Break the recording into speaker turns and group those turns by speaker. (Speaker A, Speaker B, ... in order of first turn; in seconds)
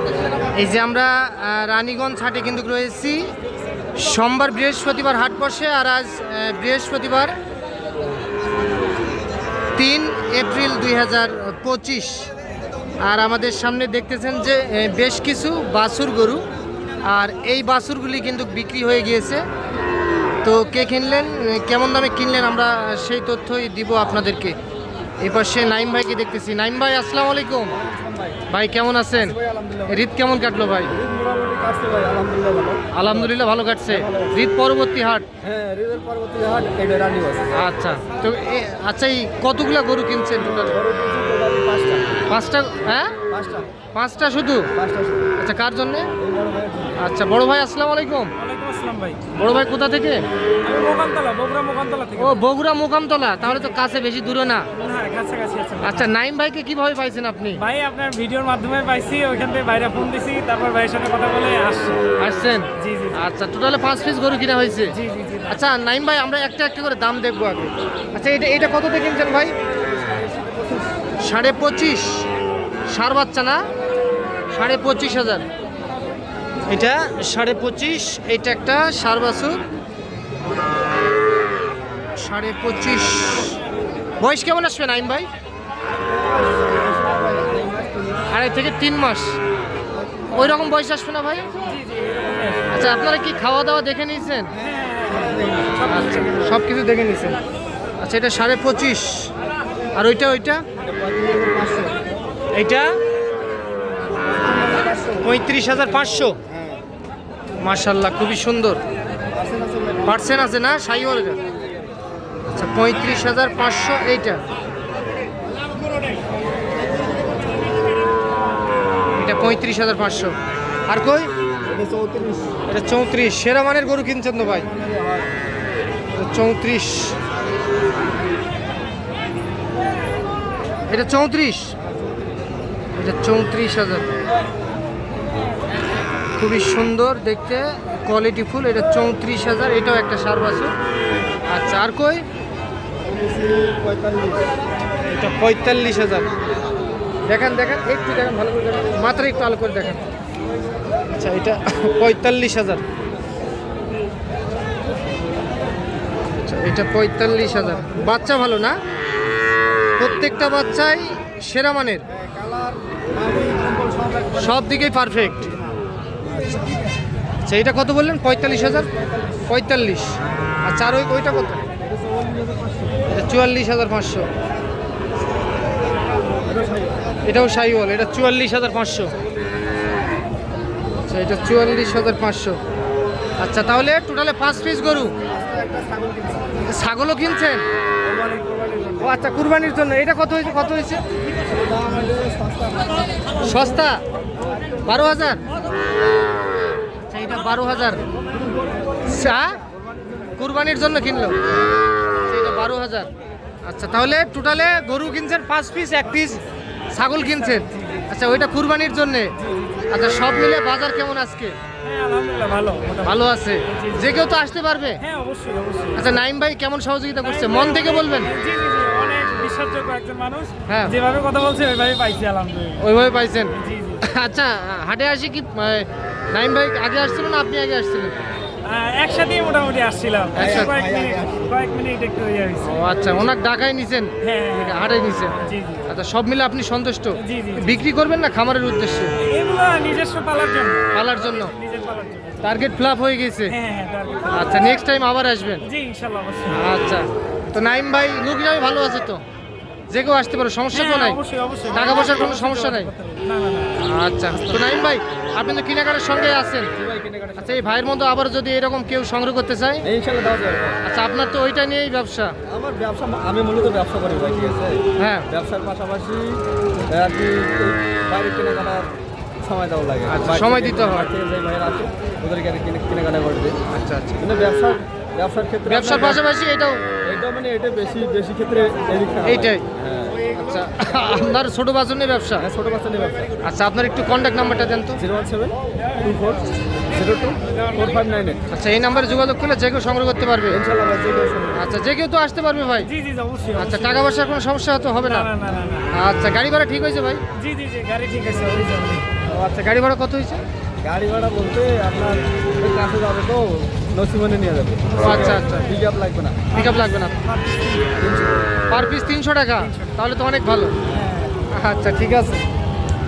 Speaker A: 0.6-3.3, 4.0-7.3, 9.8-12.3, 13.1-16.4, 17.0-19.4, 20.4-24.6, 25.2-27.7, 28.5-29.4, 29.9-30.9, 32.9-35.3, 37.5-40.8, 42.3-43.1, 43.9-44.7, 45.4-46.1, 47.0-48.3, 49.3-50.2, 52.2-54.7, 55.8-57.6, 62.2-65.0, 65.5-69.5, 71.2-72.2, 72.9-73.7, 74.5-75.5, 76.7-79.6, 82.2-83.6, 84.2-85.3, 88.3-89.4, 90.3-91.5, 92.7-94.5, 95.8-97.4, 98.0-99.3, 99.9-100.6, 102.5-102.9, 105.2-106.4, 107.6-108.8, 110.1-111.4, 112.5-114.4, 119.2-120.3, 120.9-121.3, 122.7-124.7, 126.2-127.2, 130.9-131.8, 133.0-134.1, 136.4-140.7, 141.5-142.2, 145.1-146.3, 147.3-150.0, 151.1-152.8, 156.4-158.8, 160.0-162.1, 164.4-165.5, 167.4-168.9, 169.5-171.6, 173.1-174.3, 177.3-179.1, 181.1-182.6, 183.4-185.1, 186.7-187.6, 189.0-191.0, 193.4-194.0, 194.9-195.4, 197.1-198.0, 199.1-199.6, 200.4-201.4, 202.3-203.1, 203.7-206.4, 206.9-209.3, 209.9-211.6, 213.0-215.0, 215.9-218.3, 220.7-220.9, 222.8-228.2, 230.3-230.7, 232.6-239.1, 240.9-241.5, 242.4-243.6, 244.3-245.7, 246.5-249.2, 249.9-251.2, 251.7-252.9, 253.8-256.7, 257.4-259.9, 260.8-262.4, 265.0-265.3, 270.1-271.1, 273.7-274.2, 275.7-276.8, 279.2-279.7, 280.3-282.5, 283.4-285.0, 288.5-290.6, 291.5-292.9, 293.6-295.3, 295.9-297.2, 299.3-300.4, 305.0-305.7, 306.5-307.2, 308.7-310.8, 311.5-312.4
Speaker B: 27.7-28.4, 29.2-30.1, 30.9-33.3, 33.9-34.3, 35.4-37.5, 40.6-42.2, 43.3-43.7, 44.7-45.4, 46.2-47.0, 69.9-70.9, 86.1-88.3, 90.0-90.3, 94.6-96.5, 100.8-102.0, 104.3-105.3, 109.3-110.1, 121.7-122.6, 124.6-125.3, 143.0-144.5, 162.1-164.6, 166.3-166.9, 168.8-169.3, 171.8-173.0, 176.5-177.0, 185.3-186.5, 188.0-189.2, 191.4-193.1, 230.4-231.5, 256.8-257.8, 259.8-260.8, 262.5-268.9, 269.4-273.6, 274.2-276.2, 277.1-280.3, 282.4-283.3, 285.0-288.4, 290.5-291.6, 300.8-306.5, 308.0-308.4
Speaker C: 48.4-49.3, 50.6-52.4, 53.4-53.8, 54.8-56.1, 57.6-62.0, 62.8-63.2, 64.9-65.6, 91.7-92.9, 94.6-95.4, 207.1-208.1, 209.4-209.8, 211.8-214.3, 215.0-216.2, 217.2-222.9, 223.5-224.0, 228.7-232.7, 234.2-235.8, 237.2-237.8, 239.2-242.6, 243.5-244.8, 245.6-246.7, 250.7-254.6, 292.8-294.1, 295.0-295.9, 297.4-299.1, 305.1-305.6, 306.6-308.0, 309.6-309.9, 310.9-311.4